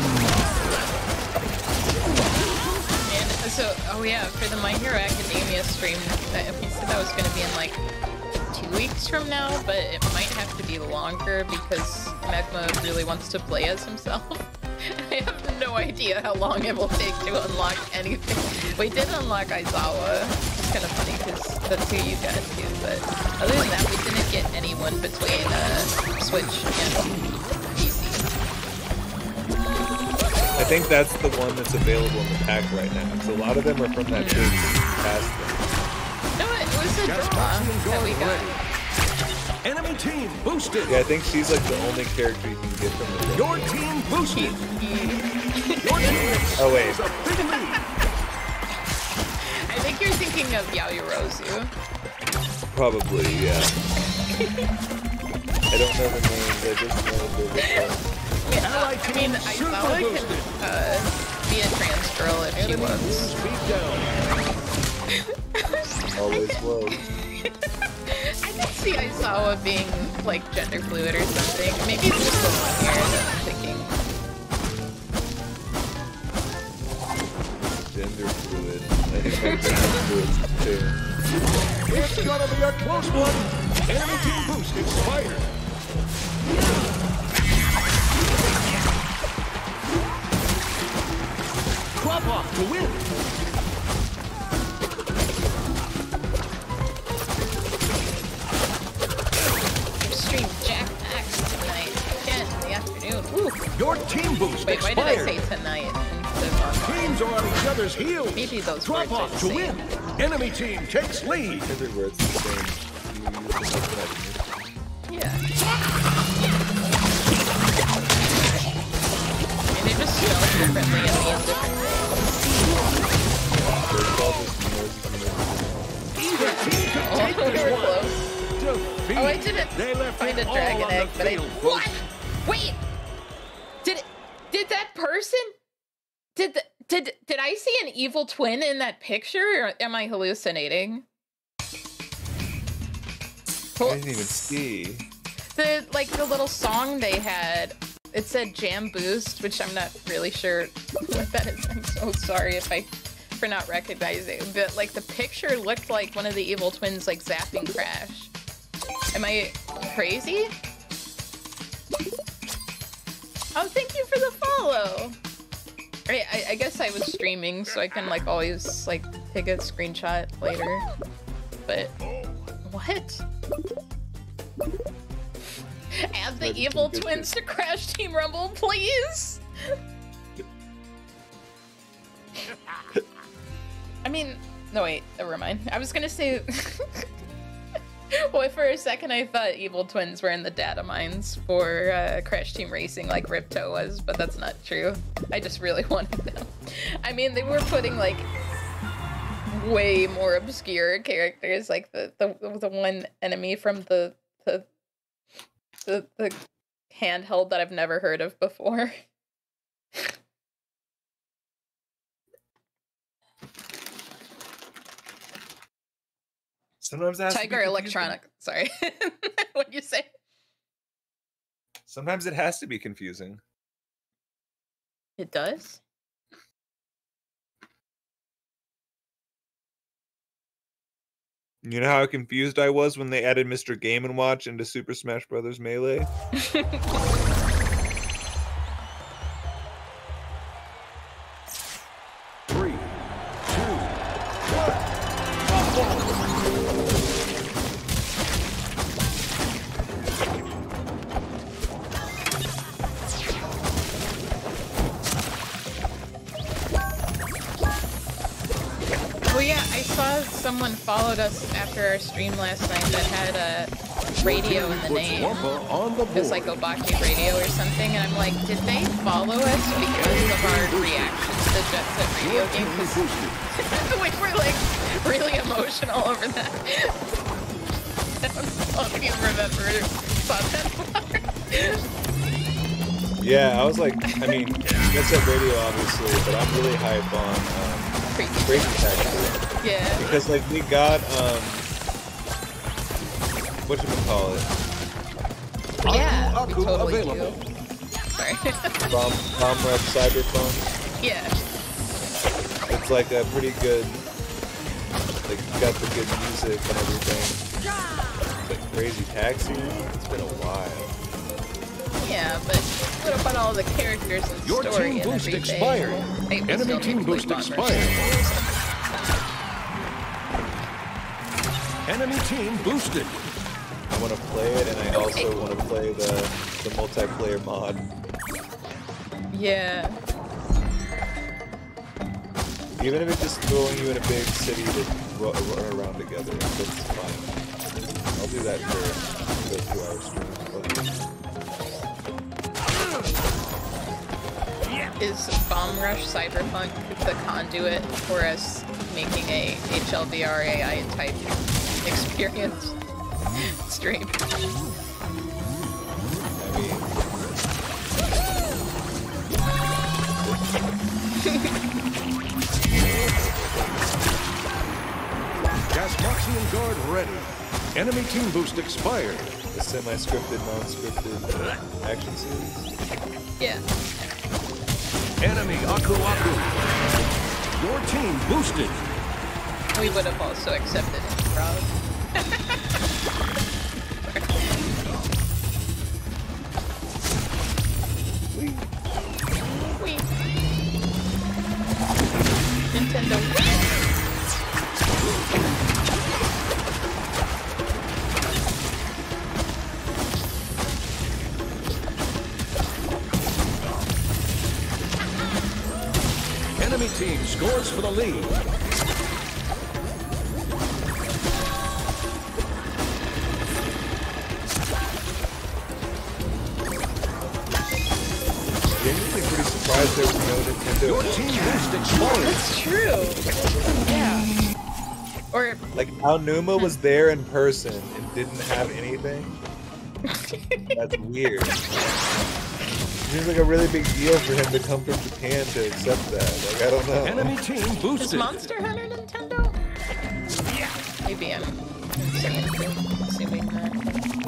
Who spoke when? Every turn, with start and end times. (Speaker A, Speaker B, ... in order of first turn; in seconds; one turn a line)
Speaker A: 3.0-7.8
Speaker A: 8.5-28.3
Speaker B: 30.6-35.7
Speaker A: 34.1-34.5
Speaker A: 36.4-38.6
Speaker C: 37.0-38.6
Speaker C: 39.6-41.0
Speaker B: 40.9-43.8
Speaker C: 43.3-44.6
Speaker A: 44.3-46.1
Speaker C: 45.8-47.9
Speaker B: 46.6-47.1
Speaker A: 47.4-47.6
Speaker A: 49.4-51.7
Speaker B: 52.7-53.8
Speaker A: 54.3-54.7
Speaker B: 55.7-58.0
Speaker A: 57.6-57.9
Speaker A: 58.5-63.3
Speaker C: 58.6-60.5
Speaker C: 62.5-64.1
Speaker A: 65.1-66.2
Speaker B: 66.1-67.0
Speaker A: 66.9-67.5
Speaker A: 68.1-74.0
Speaker B: 77.6-81.0
Speaker A: 79.3-80.0
Speaker C: 81.9-85.5
Speaker A: 81.9-82.3
Speaker C: 92.0-93.1
Speaker A: 100.0-103.7
Speaker C: 103.7-105.5
Speaker A: 104.6-107.2
Speaker C: 106.8-111.7
Speaker A: 108.3-109.9
Speaker B: 111.6-114.7
Speaker A: 115.1-115.4
Speaker A: 119.7-122.5
Speaker B: 123.7-126.0
Speaker C: 126.2-131.9
Speaker A: 126.4-128.2
Speaker A: 129.1-132.8
Speaker A: 133.8-135.5
Speaker A: 136.3-141.0
Speaker B: 143.8-145.1
Speaker A: 145.5-158.3
Speaker A: 159.1-160.5
Speaker A: 163.5-165.2
Speaker A: 166.1-170.8
Speaker A: 171.7-171.9
Speaker A: 172.6-173.2
Speaker A: 175.9-179.7
Speaker B: 176.4-177.3
Speaker A: 184.0-187.1
Speaker A: 188.1-198.3
Speaker A: 199.5-204.7
Speaker A: 205.8-208.9
Speaker B: 216.8-218.2
Speaker A: 217.3-220.1
Speaker B: 221.8-223.4
Speaker A: 225.2-225.8
Speaker B: 231.6-236.1
Speaker A: 236.3-236.8
Speaker C: 242.5-242.9
Speaker C: 243.5-243.9
Speaker A: 259.3-265.5
Speaker C: 264.2-266.5
Speaker A: 266.1-277.0
Speaker C: 269.9-271.4
Speaker C: 272.2-273.4
Speaker A: 278.2-281.8
Speaker B: 283.2-289.4
Speaker A: 284.1-284.4
Speaker A: 288.1-290.0
Speaker B: 289.9-291.7
Speaker B: 293.6-294.5
Speaker C: 295.9-297.4
Speaker A: 295.9-297.4
Speaker A: 298.1-298.7
Speaker B: 298.9-300.7
Speaker A: 301.0-301.4
Speaker B: 302.7-304.0
Speaker B: 305.2-307.4
Speaker B: 308.4-310.9
Speaker A: 312.0-318.5
Speaker C: 314.4-318.1
Speaker C: 321.9-323.2
Speaker B: 323.9-327.9
Speaker A: 325.1-325.5
Speaker A: 329.3-330.0
Speaker B: 332.8-337.3
Speaker B: 338.1-340.9
Speaker A: 345.0-352.7
Speaker A: 353.4-354.2
Speaker B: 356.3-357.0
Speaker B: 360.2-360.5
Speaker A: 361.2-361.5
Speaker B: 362.9-364.0
Speaker C: 365.7-369.3
Speaker B: 369.5-372.7
Speaker A: 373.4-373.6
Speaker C: 375.2-376.6
Speaker C: 377.6-378.8
Speaker A: 379.7-382.6
Speaker B: 388.3-388.6
Speaker A: 389.4-390.1
Speaker A: 392.7-393.8
Speaker C: 406.6-408.4
Speaker B: 418.8-421.4
Speaker C: 420.8-422.4
Speaker A: 421.3-423.2
Speaker A: 423.9-424.3
Speaker A: 425.3-425.6
Speaker B: 425.7-429.3
Speaker A: 430.1-430.8
Speaker B: 430.7-431.5
Speaker B: 433.0-437.4
Speaker C: 437.0-438.4
Speaker A: 438.0-439.6
Speaker A: 441.0-444.0